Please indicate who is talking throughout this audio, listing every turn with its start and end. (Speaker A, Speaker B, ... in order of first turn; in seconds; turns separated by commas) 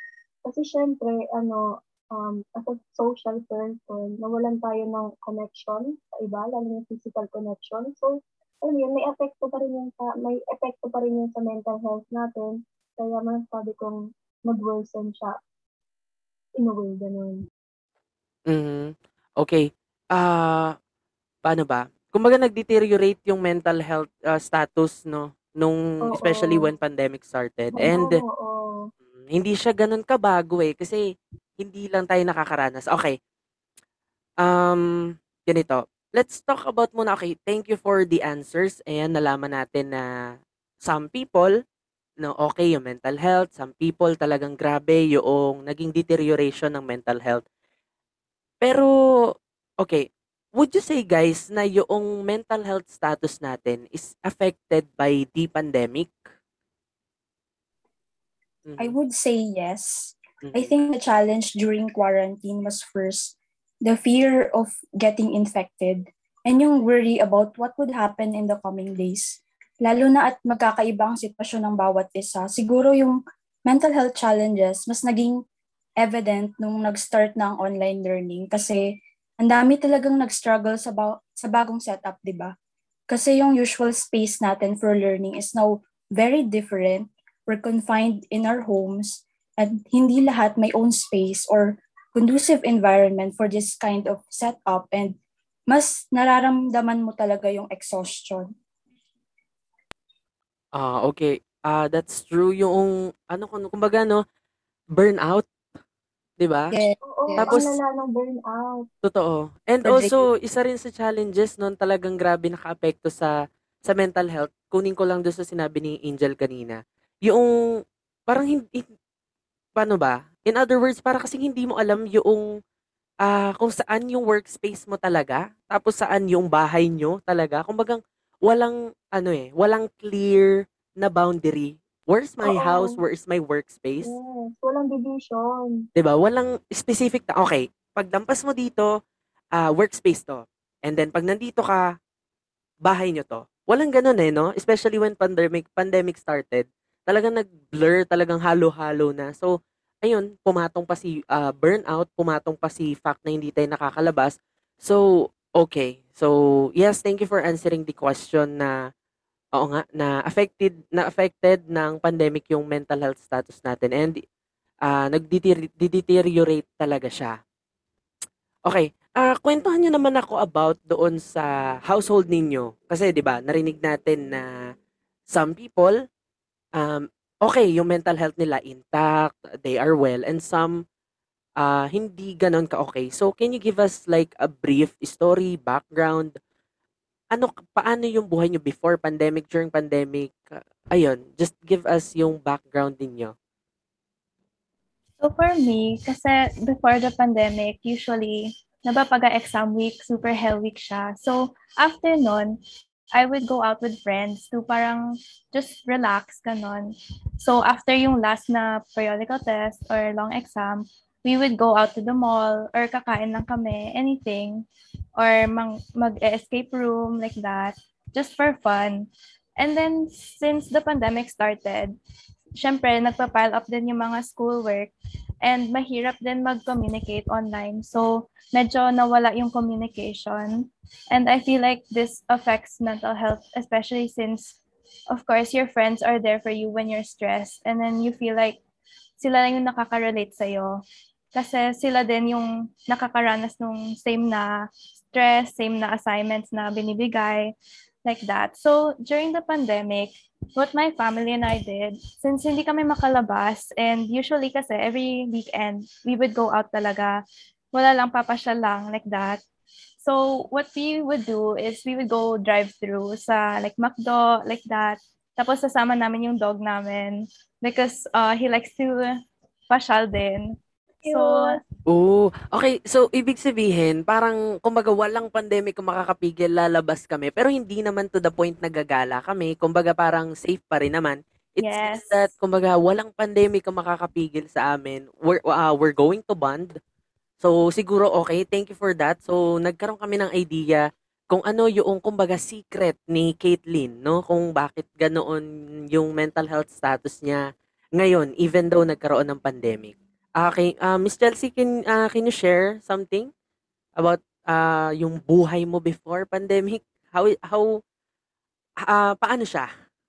Speaker A: 0.5-15.3, Speaker A: 16.6-17.4, Speaker B: 18.5-20.8, Speaker B: 21.4-28.2, Speaker A: 26.0-26.7, Speaker A: 27.8-28.8, Speaker B: 29.3-31.0, Speaker B: 31.6-33.2, Speaker B: 34.4-34.9, Speaker B: 35.5-40.0, Speaker B: 40.8-41.5, Speaker B: 42.2-47.4, Speaker B: 48.6-48.9, Speaker B: 49.8-56.1, Speaker B: 58.7-58.9, Speaker C: 58.8-75.4, Speaker B: 60.4-60.7, Speaker C: 76.0-78.8, Speaker C: 79.4-82.5, Speaker C: 83.1-95.2, Speaker C: 95.7-98.5, Speaker B: 100.8-104.2, Speaker B: 104.9-105.5, Speaker B: 106.4-106.7, Speaker C: 106.7-107.7, Speaker A: 107.0-108.9, Speaker B: 107.4-107.7, Speaker B: 109.0-113.3, Speaker C: 109.8-110.2, Speaker B: 113.8-117.5, Speaker B: 118.3-118.8, Speaker B: 119.8-122.5, Speaker B: 123.2-134.1, Speaker A: 132.4-132.9, Speaker A: 134.0-135.8, Speaker B: 136.0-138.9, Speaker B: 139.6-141.8, Speaker B: 142.8-149.5, Speaker B: 150.0-155.0, Speaker B: 155.5-158.7, Speaker B: 159.6-164.2, Speaker B: 164.8-167.3, Speaker B: 168.7-174.5, Speaker B: 175.3-176.0, Speaker B: 176.8-180.8, Speaker B: 181.6-186.3, Speaker B: 187.3-193.3, Speaker D: 195.2-202.6, Speaker D: 203.1-214.7, Speaker D: 215.2-222.0, Speaker D: 222.6-224.9, Speaker D: 225.4-234.6, Speaker D: 235.1-238.6, Speaker D: 239.2-240.8, Speaker D: 241.3-247.5, Speaker D: 248.0-257.2, Speaker D: 257.7-259.4, Speaker D: 260.0-269.1, Speaker D: 269.7-270.6, Speaker A: 271.0-271.6, Speaker D: 271.1-271.6, Speaker B: 271.9-286.7, Speaker D: 281.6-282.3, Speaker B: 287.4-297.4, Speaker B: 298.0-303.3, Speaker B: 304.0-307.7, Speaker B: 308.9-309.7